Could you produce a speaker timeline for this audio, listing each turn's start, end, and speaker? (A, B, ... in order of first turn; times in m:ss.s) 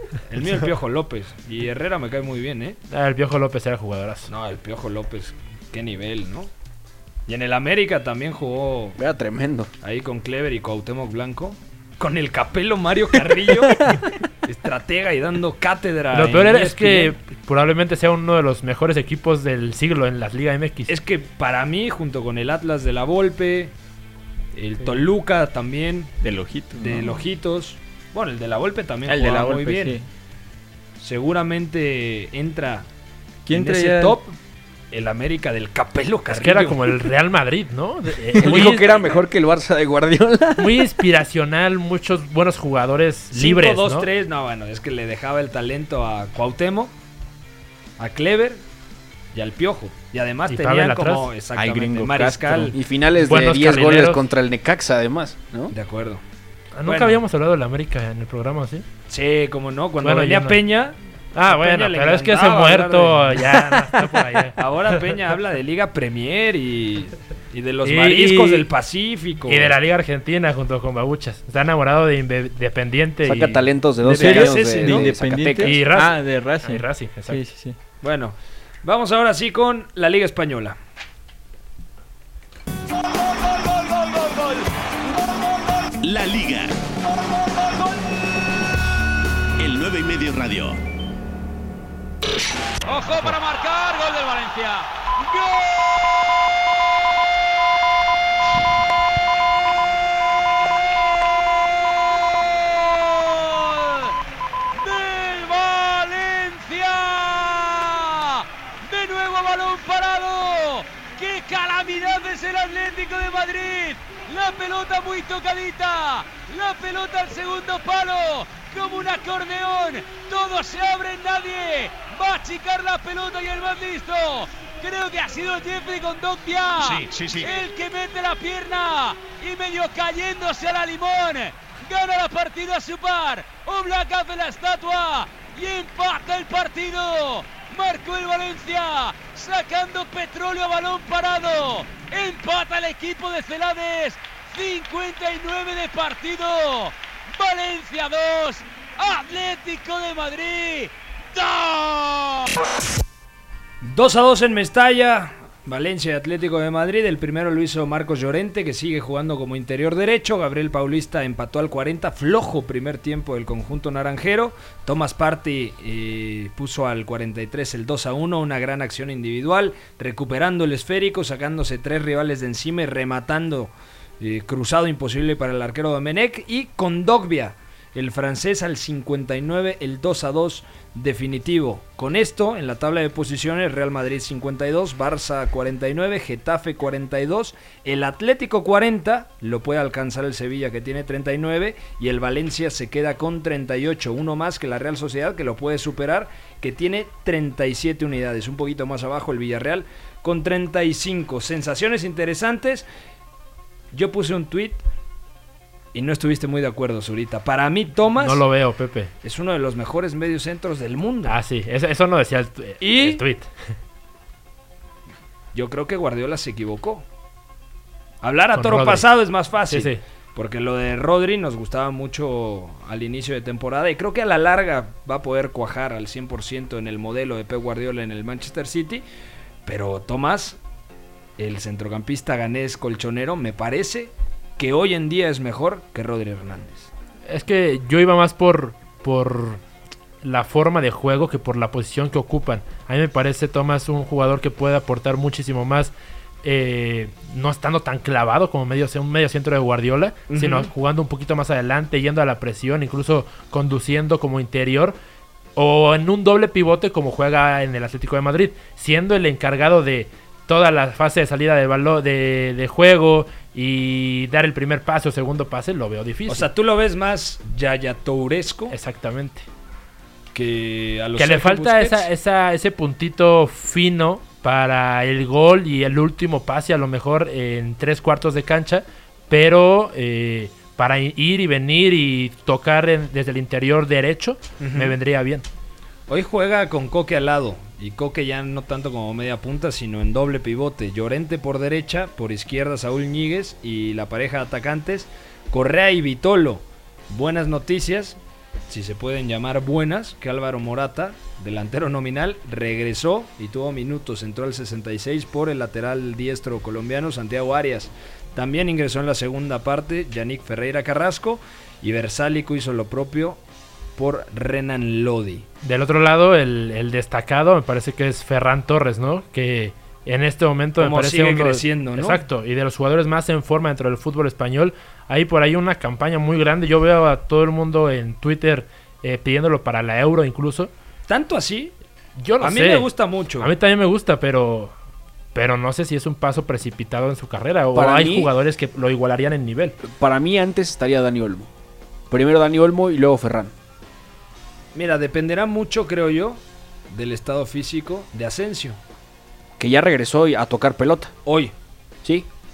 0:00.3-0:02.8 A
0:02.9-0:04.3 B
0:04.3-0:06.5 A
0:07.3-0:09.0 A
0:09.0-0:09.7 C
0:09.8-0:17.1 A
0:16.1-0:20.9 B
0:20.9-0:23.7 A
0:24.6-0:26.1 A
0:26.2-0:27.2 D
0:26.8-0:30.0 A
0:29.1-0:30.1 D
0:31.0-0:32.9 A
0:33.5-0:34.3 D
0:33.5-0:34.3 A
0:34.9-0:36.8 A
0:36.3-0:39.2 B
0:38.3-0:40.9 C
0:40.6-0:44.1 B
0:43.3-0:46.9 A
0:48.0-0:48.6 A
0:49.3-0:52.8 A
0:50.5-0:51.3 B
0:51.6-0:55.7 C
0:53.2-0:54.2 B
0:55.7-0:56.2 A
0:56.8-0:58.9 B
0:56.8-0:57.2 A
0:59.1-1:03.6 A
1:00.0-1:00.6 B
1:01.3-1:05.0 B
1:04.6-1:09.7 A
1:07.8-1:08.7 B
1:09.5-1:13.6 B
1:13.2-1:15.8 C
1:14.0-1:17.8 D
1:14.1-1:15.1 A
1:15.6-1:17.4 B
1:18.0-1:20.8 A
1:23.6-1:24.7 E
1:26.0-1:26.8 F
1:29.6-1:30.8 F
1:32.8-1:36.4 E
1:41.2-1:44.1 E
1:44.8-2:32.5 E
2:33.8-3:22.9 A
3:23.9-3:24.8 A
3:25.9-3:28.4 A
3:28.1-3:29.1 B
3:29.2-3:31.4 A
3:31.2-3:33.5 B
3:32.8-3:33.2 A
3:35.5-3:37.0 A
3:38.2-3:49.0 A
3:38.5-3:39.1 B
3:39.7-3:40.0 B
3:49.7-3:50.6 A
3:51.4-3:56.9 A
3:57.3-3:59.6 B
4:00.2-4:05.9 B
4:06.4-4:15.0 B
4:10.3-4:10.7 A
4:15.6-4:26.5 B
4:26.3-4:28.8 A
4:28.7-4:29.5 B
4:30.3-4:32.1 A
4:31.2-4:45.5 B
4:44.6-4:45.0 A
4:46.1-4:58.2 A
4:58.7-5:13.4 A
5:14.0-5:15.4 A
5:15.6-5:30.7 B
5:20.8-5:22.2 A
5:31.1-5:31.7 A
5:32.2-5:32.9 B
5:32.4-5:33.5 A
5:33.4-5:34.7 B
5:35.3-5:39.8 B
5:37.7-5:38.3 C
5:39.8-5:41.5 C
5:42.1-5:43.5 C
5:44.8-5:48.8 A
5:49.6-5:51.1 C
5:51.2-5:51.5 A